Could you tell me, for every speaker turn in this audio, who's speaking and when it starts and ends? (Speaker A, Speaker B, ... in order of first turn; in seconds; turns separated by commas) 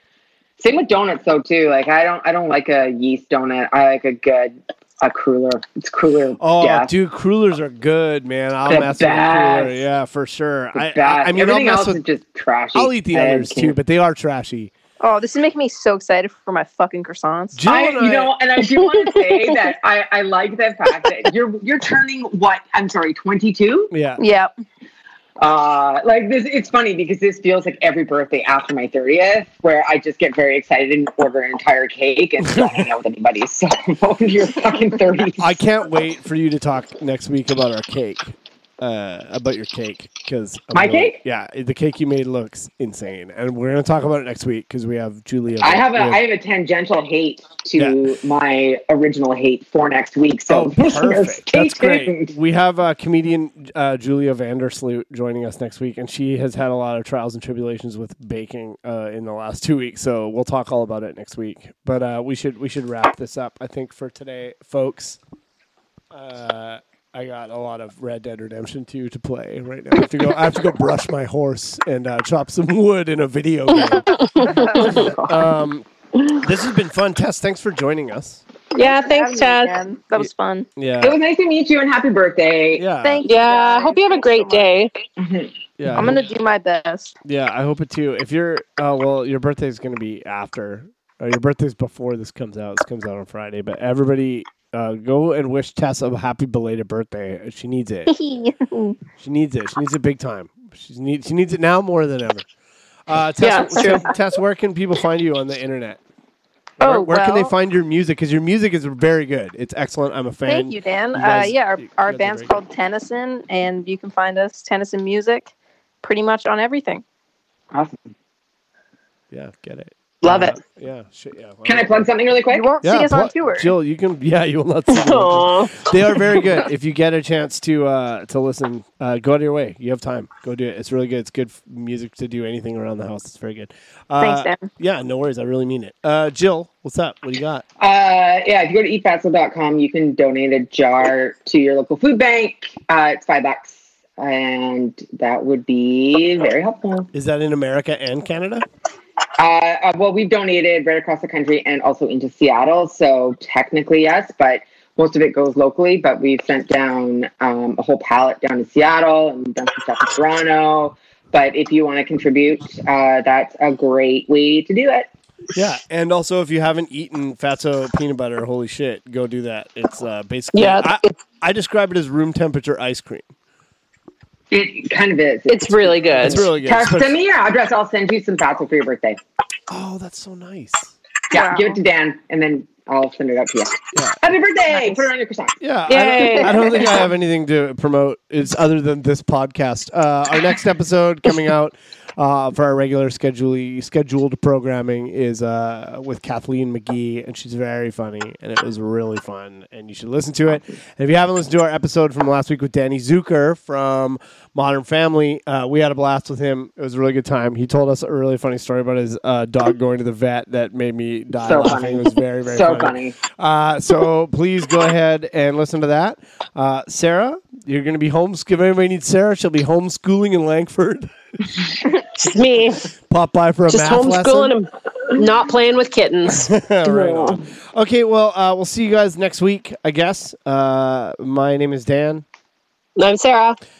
Speaker A: 0.6-6.9, Speaker B: 6.4-12.0, Speaker A: 8.7-9.8, Speaker A: 10.7-13.8, Speaker B: 12.7-14.7, Speaker C: 15.0-17.6, Speaker B: 17.5-18.3, Speaker A: 17.7-23.9, Speaker D: 18.7-19.6, Speaker B: 23.9-24.2, Speaker C: 24.2-24.5, Speaker A: 25.4-35.6, Speaker B: 32.4-32.8, Speaker B: 35.4-46.2, Speaker A: 40.7-41.2, Speaker A: 45.6-52.3, Speaker B: 47.8-48.0, Speaker B: 50.5-65.2, Speaker B: 66.1-78.4, Speaker D: 74.1-74.7, Speaker C: 74.4-75.0, Speaker A: 74.7-75.3, Speaker D: 78.7-79.8, Speaker C: 78.8-80.7, Speaker B: 80.2-81.2, Speaker A: 81.0-82.8, Speaker B: 82.8-83.3, Speaker C: 83.0-84.7, Speaker D: 83.2-84.9, Speaker A: 85.2-85.5, Speaker B: 85.8-86.2, Speaker C: 85.9-87.2, Speaker B: 87.2-98.1, Speaker C: 98.1-99.0, Speaker B: 99.2-102.5, Speaker B: 103.1-106.0, Speaker D: 103.4-104.1, Speaker C: 103.8-104.1, Speaker B: 106.8-112.5, Speaker C: 106.8-107.5, Speaker C: 110.5-115.5, Speaker C: 116.0-117.0, Speaker A: 117.7-118.1, Speaker B: 119.3-122.1, Speaker D: 120.2-120.5, Speaker A: 121.7-122.7, Speaker C: 122.5-123.7, Speaker B: 122.8-137.6, Speaker D: 124.9-126.4, Speaker C: 134.2-134.7, Speaker A: 137.8-147.1, Speaker B: 147.1-148.6, Speaker A: 149.4-165.1, Speaker B: 165.5-173.2, Speaker D: 170.5-171.0, Speaker A: 174.5-179.2, Speaker D: 175.5-176.4, Speaker B: 176.2-177.1, Speaker B: 179.7-180.9, Speaker A: 181.3-185.6, Speaker C: 181.3-181.8, Speaker B: 185.6-221.1, Speaker D: 185.9-187.0, Speaker A: 211.4-213.2, Speaker D: 222.0-222.9, Speaker B: 223.1-224.5, Speaker D: 223.7-226.5, Speaker B: 226.3-232.2, Speaker A: 226.9-227.4, Speaker D: 232.9-233.6